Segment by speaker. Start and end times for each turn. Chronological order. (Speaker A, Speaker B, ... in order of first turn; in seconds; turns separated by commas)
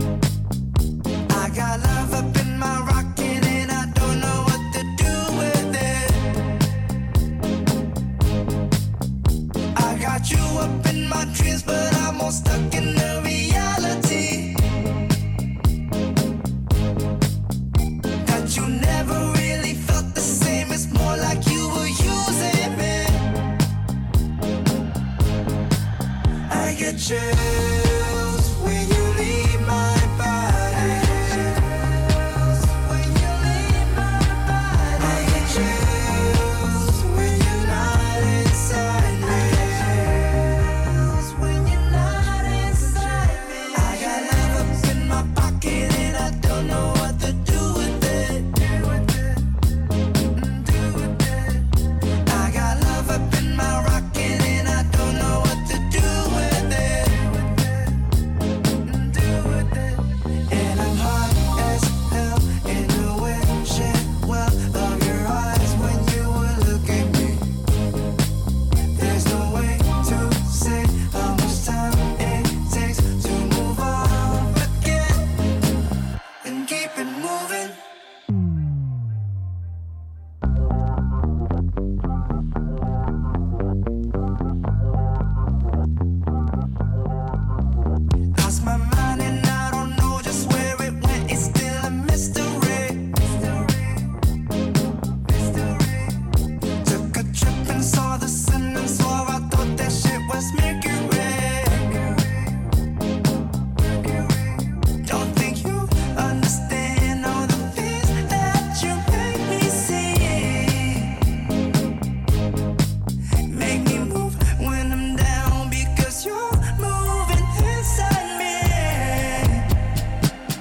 Speaker A: 1.3-6.4, Speaker A: 9.7-14.8, Speaker A: 18.2-23.4, Speaker A: 26.5-49.5, Speaker A: 50.3-51.7, Speaker A: 52.2-58.1, Speaker A: 58.8-67.6, Speaker A: 68.9-75.4, Speaker A: 76.4-77.8, Speaker A: 88.3-94.1, Speaker A: 95.2-96.2, Speaker A: 96.8-102.6, Speaker A: 104.0-111.2, Speaker A: 113.5-119.8